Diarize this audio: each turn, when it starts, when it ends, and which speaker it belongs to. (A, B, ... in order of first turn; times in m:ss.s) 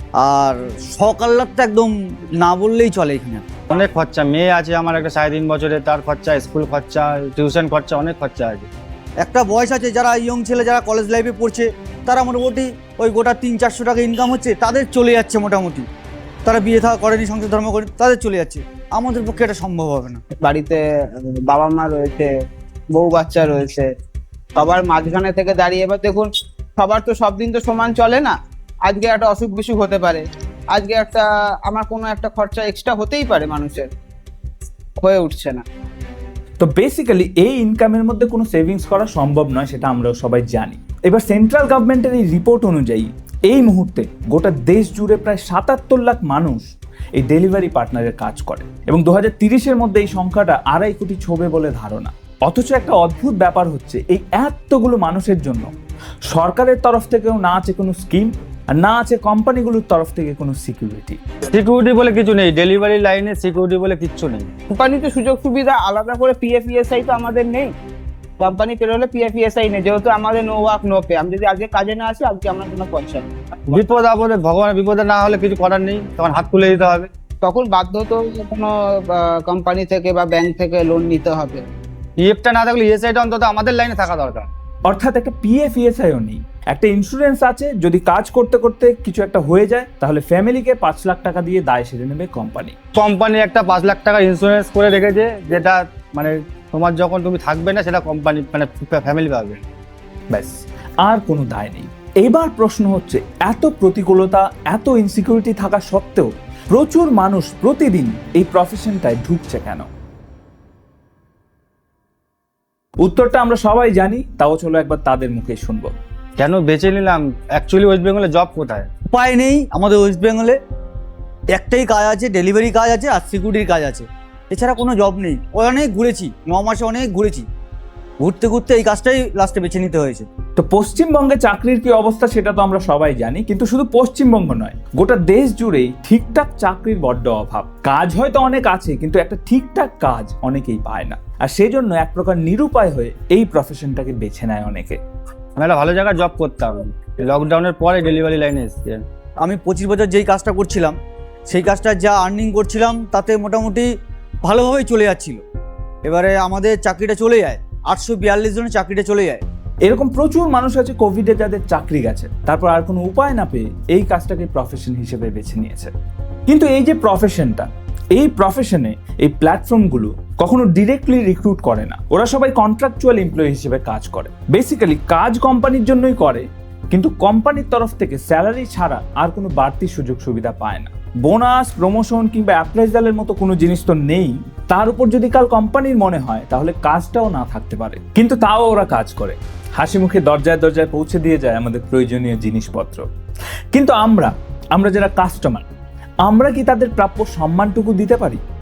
0:00.2-0:03.5 A
0:03.7-0:08.7 B
0:09.2-0:15.8 A
0:16.4-0:20.2 A
0:20.4-0:22.3 C
0:22.9-0:23.8 C
0:24.5-0:28.3 C
0:28.8-0:33.9 C
0:35.0-0:35.6 C
0:36.6-0:46.6 D
0:47.2-0:55.7 D
0:56.3-1:01.2 D
1:01.5-1:04.5 B
1:04.7-1:07.7 C
1:08.4-1:13.3 C
1:13.7-1:17.1 B
1:17.4-1:21.6 C
1:22.2-1:24.5 B
1:24.9-1:32.7 D
1:32.9-1:39.6 B
1:40.3-1:49.9 D
1:53.0-1:55.9 D
1:56.4-1:58.9 B
1:59.1-2:00.6 A
2:01.5-2:07.4 A
2:08.2-2:10.3 A
2:10.6-2:25.0 D
2:25.6-2:29.0 B
2:29.4-2:30.9 A
2:31.5-2:33.9 A
2:34.4-2:35.4 A
2:36.0-2:39.4 A
2:39.8-2:45.9 D
2:46.5-3:13.0 D
3:13.7-3:15.7 D
3:16.2-3:18.4 D